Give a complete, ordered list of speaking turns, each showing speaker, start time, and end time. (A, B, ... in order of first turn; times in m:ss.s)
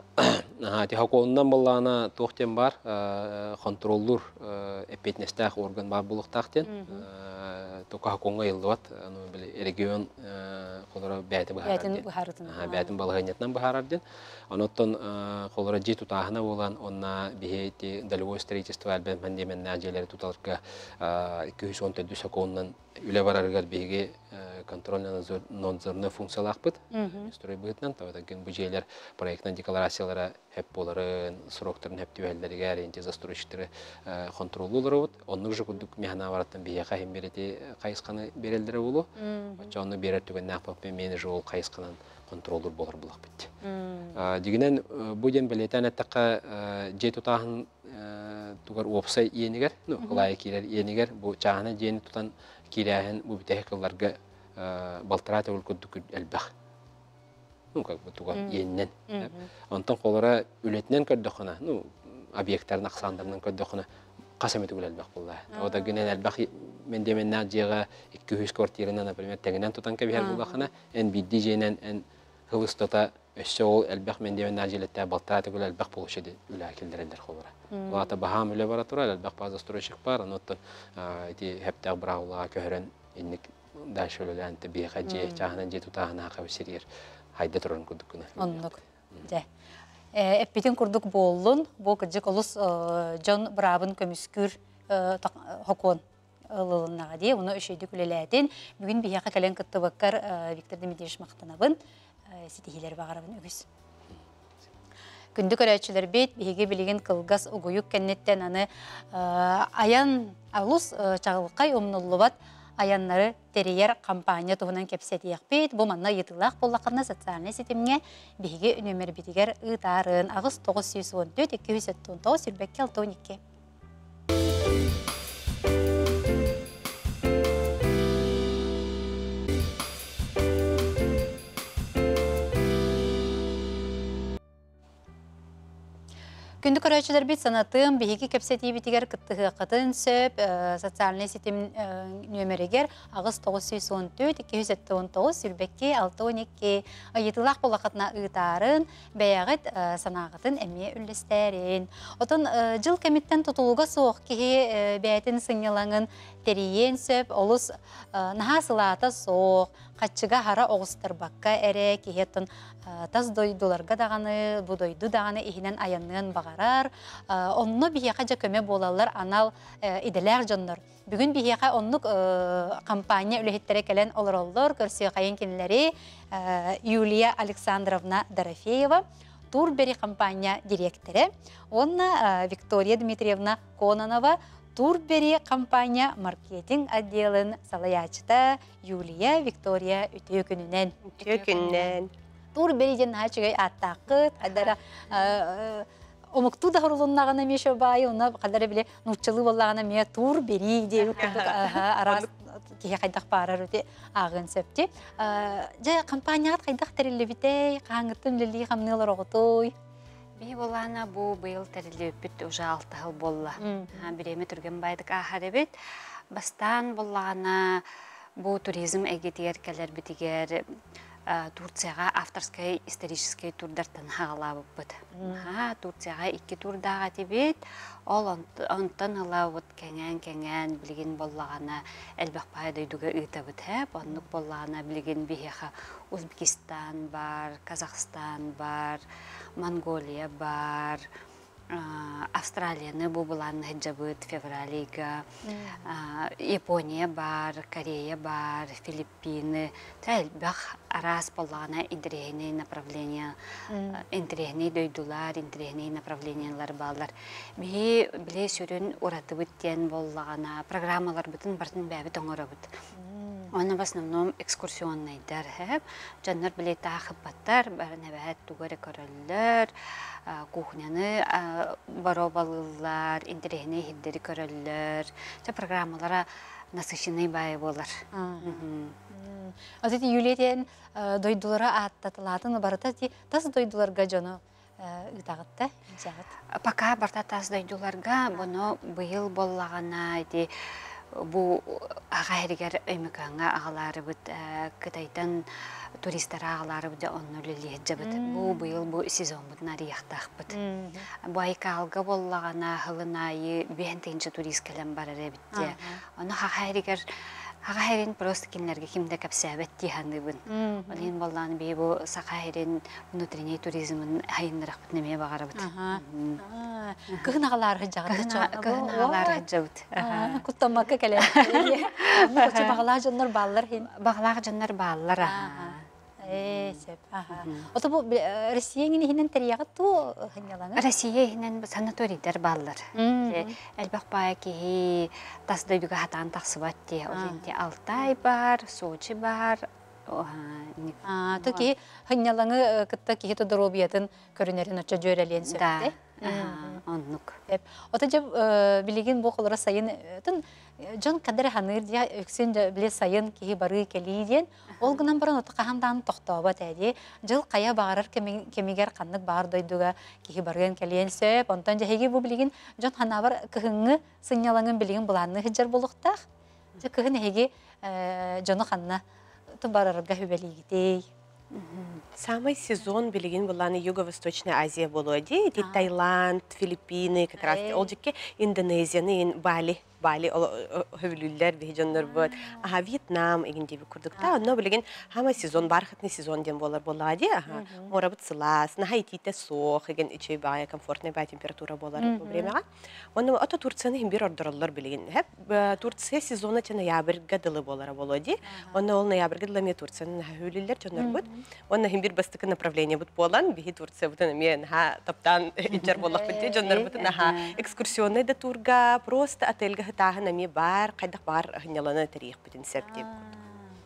0:00.2-0:43.5 A
0:06.6-0:07.0 B
0:11.6-0:12.9 B
0:26.9-0:27.3 B
0:39.2-0:39.7 B
0:43.6-0:44.2 B
0:44.1-0:56.5 A
0:50.0-0:50.3 B
0:57.7-1:03.8 A
0:58.3-0:59.5 B
1:04.4-1:29.3 A
1:05.5-1:05.9 B
1:10.1-1:10.6 B
1:17.7-1:18.1 B
1:25.0-1:25.4 B
1:28.4-1:29.4 B
1:30.1-1:43.6 B
1:45.4-2:03.4 B
2:16.6-3:11.0 B
3:11.1-3:12.1 C
3:11.2-3:11.8 D
3:12.5-3:29.7 B
3:21.1-3:22.3 C
3:30.4-3:37.9 D
3:33.6-3:34.1 B
3:38.4-3:40.7 D
3:41.3-3:59.0 D
3:45.1-3:45.5 B
3:59.6-4:01.1 D
4:01.7-4:05.3 D
4:05.4-4:05.8 B
4:05.8-4:13.4 D
4:13.7-4:14.0 B
4:13.9-4:22.8 D
4:23.0-4:23.5 B
4:23.5-4:39.0 D
4:38.1-4:46.3 B
4:46.5-5:00.6 D
4:58.0-4:58.8 B
5:00.5-5:01.0 B
5:01.2-5:16.4 D
5:05.5-5:06.0 B
5:10.5-5:11.1 B
5:15.6-5:19.4 B
5:17.1-5:17.4 D
5:18.1-5:20.4 D
5:20.0-5:23.9 B
5:21.2-5:22.8 D
5:23.9-5:27.7 D
5:25.2-5:30.8 B
5:30.8-5:41.7 D
5:32.9-5:33.5 B
5:37.1-5:37.4 B
5:41.0-5:46.8 B
5:45.5-5:47.4 D
5:47.5-6:06.2 B
6:06.8-6:09.0 B
6:09.6-6:11.1 B
6:11.5-6:12.0 D
6:12.2-6:32.6 C
6:15.6-6:15.9 B
6:17.4-6:17.9 B
6:27.5-6:27.9 B
6:32.0-6:32.5 B
6:33.1-6:53.1 C
6:38.4-6:38.8 B
6:41.0-6:41.2 B
6:45.7-6:46.5 B
6:45.8-6:47.6 D
6:52.8-6:53.7 B